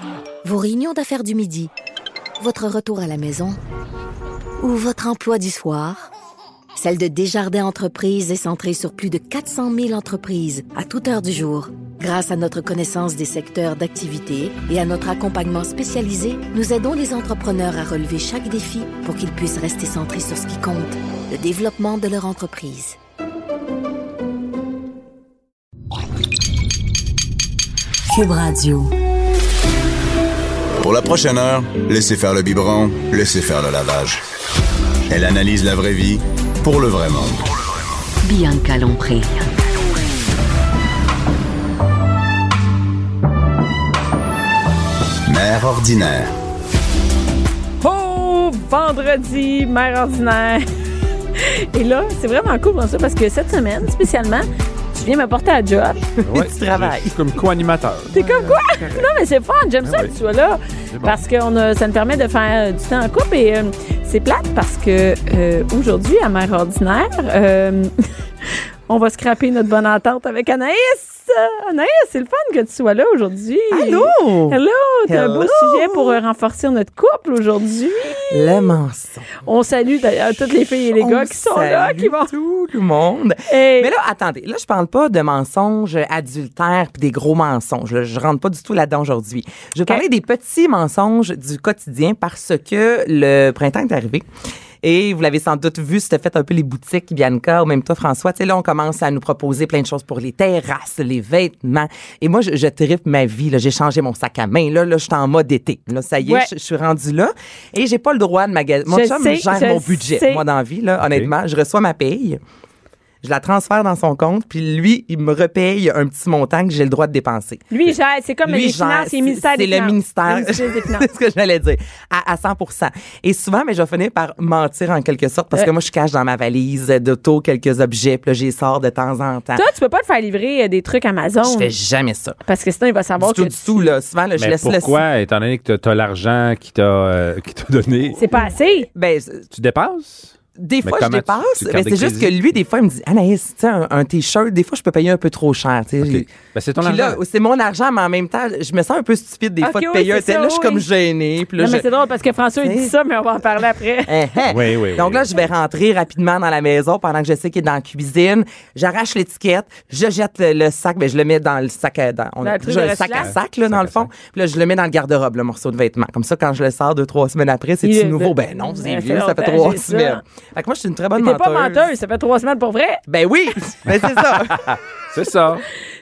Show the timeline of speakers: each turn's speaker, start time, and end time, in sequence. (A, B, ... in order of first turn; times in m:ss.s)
0:00.4-0:01.7 A
0:02.4-0:03.6 A
0:04.6-0:06.0 A
0:06.8-0:23.0 A
0:28.1-0:28.9 B
0:30.8-0:34.2 C
0:35.1-0:37.5 C
0:38.2-0:39.5 B
0:45.2-0:46.3 C
0:47.8-0:50.6 D
0:51.4-0:56.1 D
0:56.2-0:57.1 E
0:56.2-0:59.0 F
0:58.1-1:08.1 D
0:59.8-1:00.1 F
1:00.9-1:01.2 F
1:08.9-1:18.7 D
1:13.7-1:16.2 E
1:18.3-1:19.3 E
1:19.4-1:22.3 D
1:21.0-1:34.3 E
1:23.5-1:23.9 D
1:34.8-1:52.4 E
1:46.2-1:46.5 D
1:48.9-1:50.4 D
1:53.2-1:57.7 E
1:57.7-2:01.1 D
1:58.4-2:09.6 E
2:09.6-2:11.7 D
2:11.4-2:12.4 E
2:12.4-2:14.0 D
2:13.2-2:15.0 E
2:14.4-2:18.3 F
2:18.2-2:18.9 D
2:18.9-2:19.4 E
2:19.5-2:22.4 F
2:20.6-2:26.3 E
2:26.0-2:27.2 F
2:26.8-2:31.8 E
2:29.6-2:30.8 D
2:31.6-2:34.2 D
2:32.6-2:32.9 E
2:34.1-2:51.8 E
2:34.5-2:35.5 F
2:42.4-2:43.3 D
2:43.2-2:44.1 F
2:47.8-2:50.2 D
2:51.2-2:53.0 D
2:53.1-2:54.7 E
2:54.1-2:55.7 F